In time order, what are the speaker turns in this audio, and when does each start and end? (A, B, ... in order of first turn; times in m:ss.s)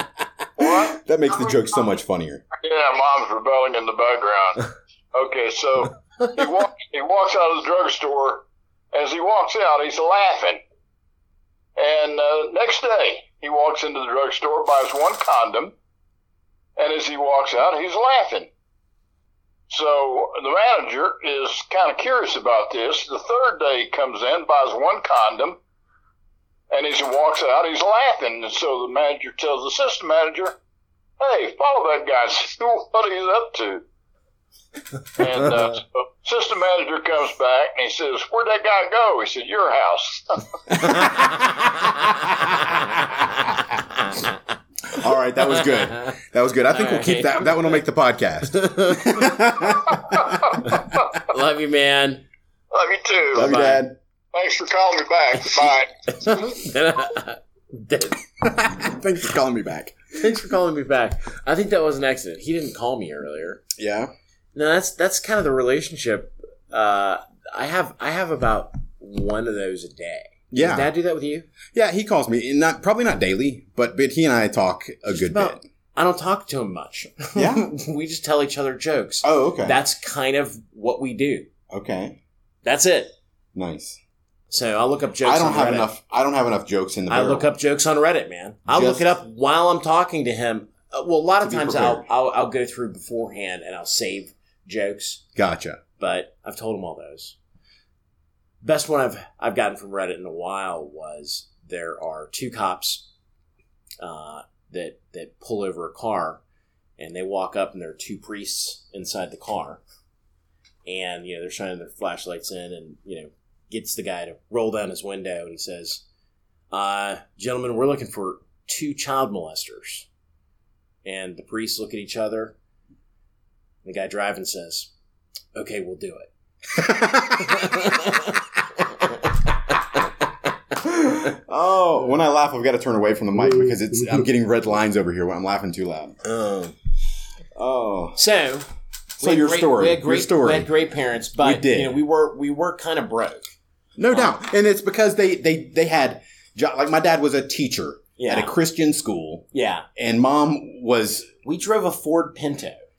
0:00.6-0:01.0 A
0:00.6-0:02.4 B
0:02.6-0:10.6 A
0:11.8-0:15.7 A
0:16.8-0:18.5 A
0:19.7-0:25.6 A
0:26.7-0:30.6 A
0:31.2-0:33.8 A
0:35.1-0:41.1 A
0:40.8-0:41.4 B
0:40.8-0:44.3 C
0:42.2-0:43.4 B
0:44.9-0:50.9 B
0:45.6-0:46.2 C
0:46.7-0:47.8 C
0:48.6-0:49.4 C
0:50.0-0:50.3 A
0:50.5-0:52.2 C
0:52.7-0:53.5 A
0:53.3-0:54.0 B
0:53.3-0:53.9 C
0:54.3-0:55.9 A
0:56.1-0:58.8 C
0:58.5-1:00.0 B
1:00.1-1:03.6 C
1:03.8-1:04.1 B
1:04.5-1:11.5 C
1:10.5-1:10.9 B
1:11.7-1:15.6 B
1:15.1-1:21.5 C
1:17.4-1:17.6 B
1:19.2-1:19.8 B
1:21.7-1:22.2 B
1:22.6-1:23.1 C
1:23.5-1:24.0 B
1:24.5-1:25.9 C
1:25.2-1:27.5 B
1:27.1-1:35.2 C
1:28.7-1:29.1 B
1:31.4-1:32.0 B
1:35.4-1:35.8 B
1:36.0-1:37.4 C
1:38.6-1:43.0 C
1:44.0-1:46.4 C
1:47.0-1:49.8 C
1:50.8-1:56.0 C
1:56.7-2:00.1 C
2:01.0-2:02.5 C
2:03.8-2:04.9 C
2:05.5-2:06.3 C
2:06.8-2:07.8 B
2:07.3-2:10.0 C
2:10.8-2:16.2 B
2:16.2-2:16.7 C
2:17.5-2:18.2 B
2:18.1-2:18.7 C
2:19.2-2:20.7 B
2:19.2-2:23.5 C
2:21.4-2:22.0 B
2:24.0-2:31.3 B
2:24.1-2:24.4 C
2:28.2-2:28.5 C
2:29.5-2:29.9 C
2:31.4-2:32.8 C